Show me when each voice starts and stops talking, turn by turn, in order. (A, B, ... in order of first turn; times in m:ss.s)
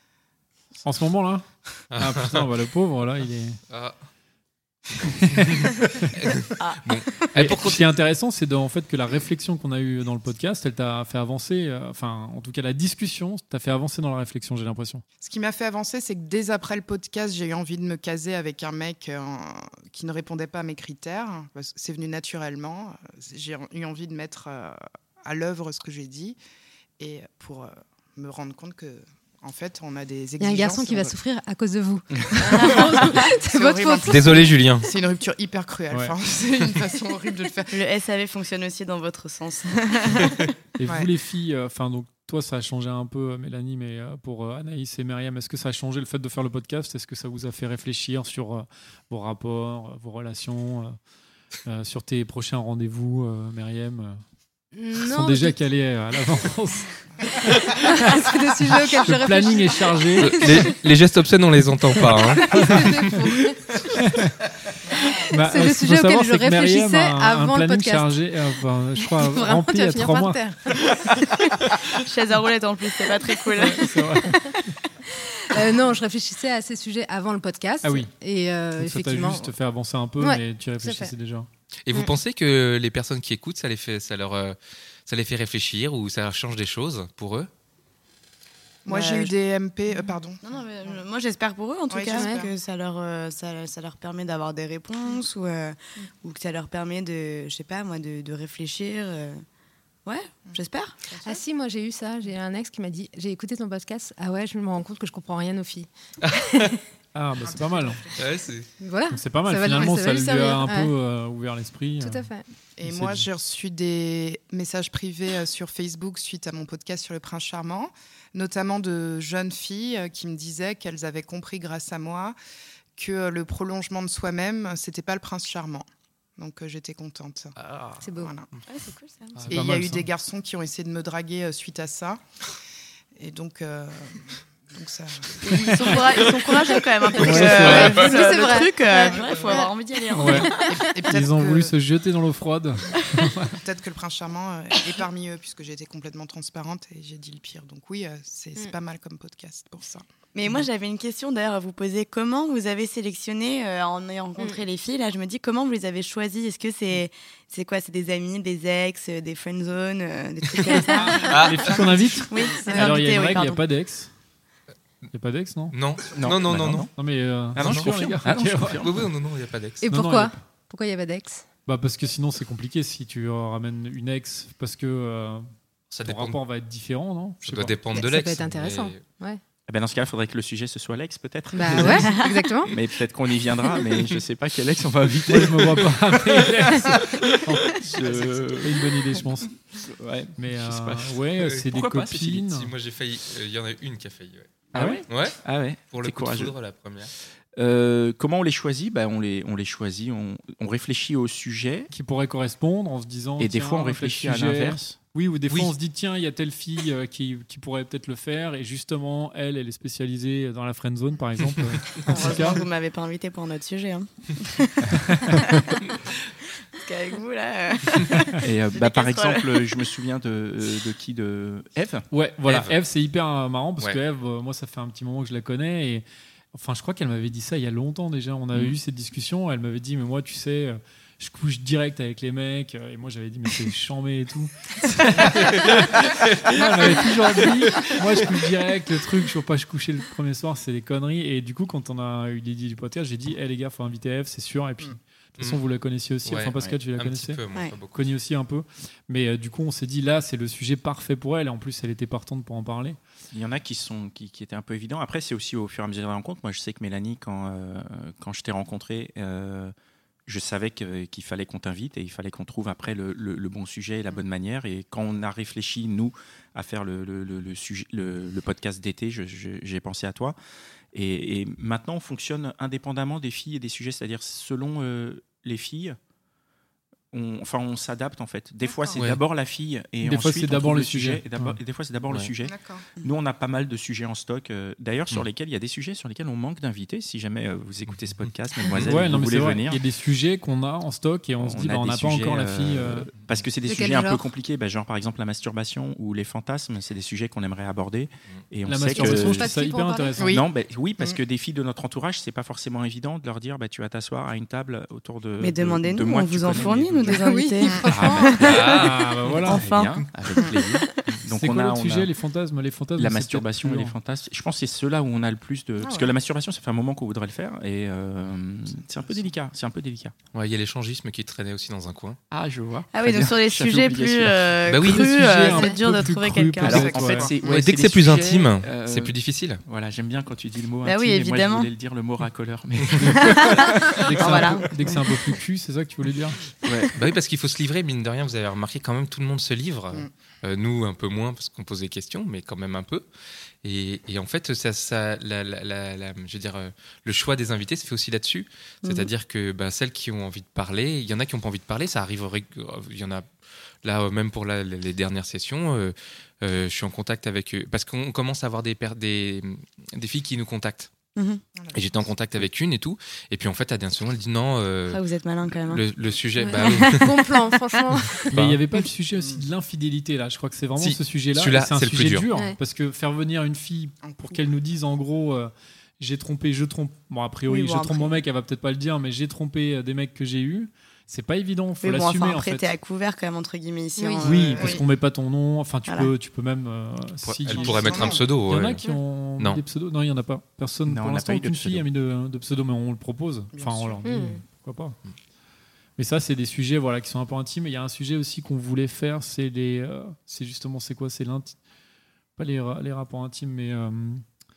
0:00.8-0:03.6 A
0:01.9-0:02.4 B
0:03.7-0:03.9 B
0:05.0-0:06.1 A
0:05.4-0:07.9 B
0:07.4-0:15.0 A
0:15.2-0:26.4 C
0:27.0-0:31.1 C
0:30.4-0:34.4 D
0:32.4-0:33.3 E
0:32.6-0:37.8 C
0:34.1-0:34.9 B
0:37.7-0:40.3 E
0:40.8-0:51.0 A
0:51.6-0:54.2 A
0:54.7-0:55.6 D
0:55.0-0:56.9 A
0:57.8-1:00.8 D
0:58.0-0:58.3 A
0:59.0-1:00.6 A
1:00.2-1:03.1 B
1:02.0-1:03.7 D
1:02.5-1:02.8 A
1:03.9-1:04.3 A
1:05.3-1:10.4 A
1:05.4-1:08.1 D
1:09.2-1:10.8 D
1:11.2-1:14.1 E
1:13.6-1:14.6 A
1:15.5-1:19.5 D
1:17.8-1:18.1 A
1:18.7-1:21.5 A
1:20.2-1:21.1 D
1:21.8-1:27.5 B
1:28.8-1:31.0 C
1:28.9-1:29.3 E
1:29.9-1:39.4 E
1:31.9-1:32.5 C
1:32.1-1:32.5 D
1:40.0-1:41.4 E
1:41.2-1:45.9 D
1:46.2-1:46.7 B
1:47.1-1:48.0 A
1:47.4-1:48.2 C
1:48.2-1:48.7 B
1:48.8-1:50.9 D
1:49.1-1:52.3 A
1:52.0-1:52.4 D
1:52.8-2:02.4 C
1:52.8-1:53.3 A
2:03.0-2:05.8 C
2:06.4-2:07.6 C
2:07.6-2:08.0 B
2:08.0-2:08.4 D
2:08.2-2:08.5 C
2:08.6-2:09.5 E
2:09.5-2:10.0 A
2:09.5-2:12.2 C
2:13.2-2:15.9 C
2:15.4-2:20.7 E
2:16.6-2:18.2 B
2:17.2-2:18.0 A
2:17.3-2:19.7 D
2:20.1-2:20.5 A
2:20.3-2:20.8 D
2:20.6-2:21.7 C
2:21.1-2:23.6 A
2:23.5-2:30.0 C
2:30.3-2:43.6 E
2:34.4-2:34.6 D
2:40.7-2:41.1 D
2:41.0-2:44.1 A
2:41.2-2:41.9 B
2:42.6-2:43.0 D
2:45.1-2:45.7 A
2:45.7-2:46.9 B
2:46.1-2:46.9 F
2:47.0-2:48.8 A
2:47.5-2:49.1 F
2:47.6-2:47.9 B
2:48.7-2:49.8 B
2:49.8-2:51.5 D
2:49.9-2:50.4 A
2:51.7-2:55.4 A
2:55.9-2:56.4 B
2:56.0-2:57.8 A
2:57.4-2:59.0 B
2:57.9-2:59.4 D
2:59.7-3:05.9 F
3:01.5-3:02.7 D
3:01.9-3:02.4 E
3:05.3-3:09.5 A
3:07.8-3:08.8 F
3:09.8-3:12.5 F
3:10.4-3:12.7 A
3:12.5-3:17.1 B
3:14.7-3:16.5 F
3:14.7-3:15.0 A
3:17.6-3:21.9 F
3:21.9-3:32.6 A
3:23.4-3:25.0 F
3:32.0-3:35.8 E
3:36.8-3:39.4 E
3:38.4-3:42.1 F
3:42.1-3:56.0 A
3:42.4-3:42.7 B
3:55.2-3:57.0 B
3:56.5-4:07.4 A
4:06.2-4:08.0 B
4:07.9-4:13.0 A
4:13.3-4:19.7 F
4:20.3-4:30.4 F
4:30.9-4:36.0 F
4:37.1-4:49.8 F
4:38.6-4:39.0 C
4:40.0-4:41.6 A
4:42.4-4:42.9 C
4:47.9-4:49.0 B
4:48.8-4:53.1 A
4:51.4-4:59.5 F
4:53.6-4:54.2 D
4:58.7-5:00.4 A
4:58.9-5:00.3 D
5:00.2-5:07.2 F
5:05.4-5:08.9 E
5:07.0-5:08.5 D
5:07.6-5:07.9 C
5:07.9-5:08.7 F
5:08.4-5:08.9 B
5:08.5-5:09.6 A
5:09.4-5:10.1 E
5:09.4-5:12.1 F
5:11.3-5:13.9 A
5:13.0-5:20.1 F
5:15.8-5:16.1 C
5:20.3-5:22.2 B
5:22.3-5:24.6 F
5:22.9-5:27.3 E
5:24.6-5:25.2 B
5:24.8-5:27.2 A
5:25.4-5:25.8 D
5:26.6-5:34.5 F
5:26.8-5:27.6 C
5:27.4-5:29.6 B
5:30.8-5:31.7 E
5:33.2-5:34.7 E
5:34.0-5:36.4 A
5:36.6-5:37.0 F
5:36.9-5:43.0 B
5:43.6-5:53.2 B
5:48.8-5:49.1 E
5:53.8-6:00.9 B
6:01.2-6:01.4 E
6:01.6-6:02.1 C
6:01.7-6:05.0 B
6:04.9-6:05.8 E
6:05.7-6:07.1 B
6:06.4-6:08.3 D
6:06.6-6:07.8 E
6:08.3-6:22.7 A
6:09.2-6:09.4 C
6:10.8-6:12.2 B
6:14.0-6:14.4 C
6:17.5-6:18.2 E
6:21.8-6:24.8 E
6:24.0-6:24.3 D
6:24.2-6:35.0 A
6:24.6-6:24.8 C
6:27.2-6:28.8 B
6:27.5-6:28.2 C
6:30.8-6:31.9 F
6:33.5-6:34.1 C
6:34.0-6:34.4 D
6:36.0-6:41.6 A
6:42.4-6:44.2 A